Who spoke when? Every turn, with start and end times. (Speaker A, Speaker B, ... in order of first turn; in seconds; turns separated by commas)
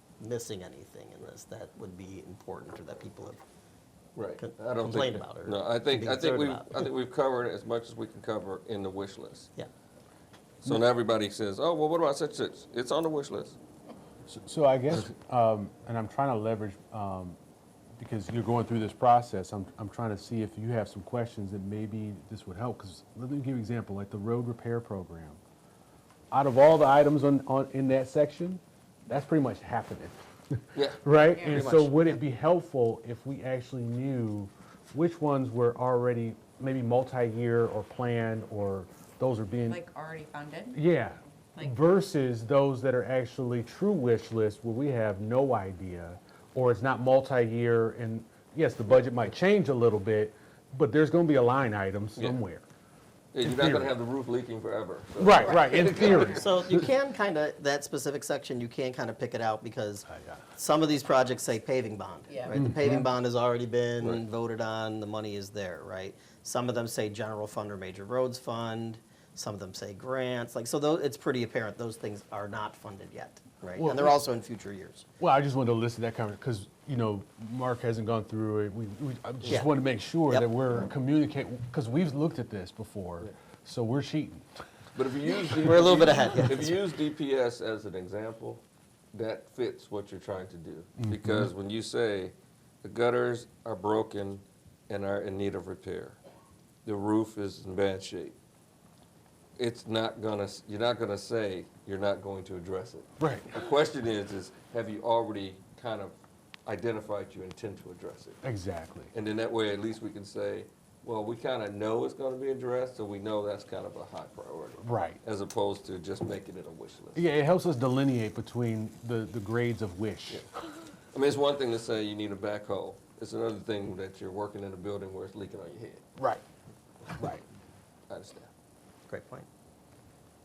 Speaker A: 0.2-3.4, Speaker B: 4.2-9.5, Speaker A: 4.4-6.9, Speaker B: 10.6-13.6, Speaker C: 14.3-17.4, Speaker C: 18.0-25.4, Speaker C: 26.3-39.8, Speaker B: 30.7-31.0, Speaker D: 31.3-31.6, Speaker A: 31.5-32.2, Speaker D: 39.7-40.8, Speaker C: 40.7-52.7, Speaker B: 53.3-56.9, Speaker C: 53.4-54.0, Speaker C: 55.2-56.5, Speaker D: 55.4-56.4, Speaker A: 56.0-75.1, Speaker C: 60.1-60.5, Speaker D: 62.3-62.6, Speaker C: 62.5-63.1, Speaker C: 73.8-74.2, Speaker C: 75.2-84.6, Speaker A: 79.5-79.7, Speaker A: 80.2-80.8, Speaker B: 84.9-96.2, Speaker A: 85.6-86.8, Speaker C: 91.0-91.5, Speaker B: 96.8-98.3, Speaker B: 99.6-108.4, Speaker C: 103.2-103.6, Speaker C: 108.4-109.1, Speaker B: 109.1-117.2, Speaker C: 114.8-115.2, Speaker C: 117.1-120.4, Speaker B: 120.3-126.0, Speaker C: 126.2-126.4, Speaker C: 127.1-127.4, Speaker B: 128.1-128.5, Speaker A: 129.1-129.5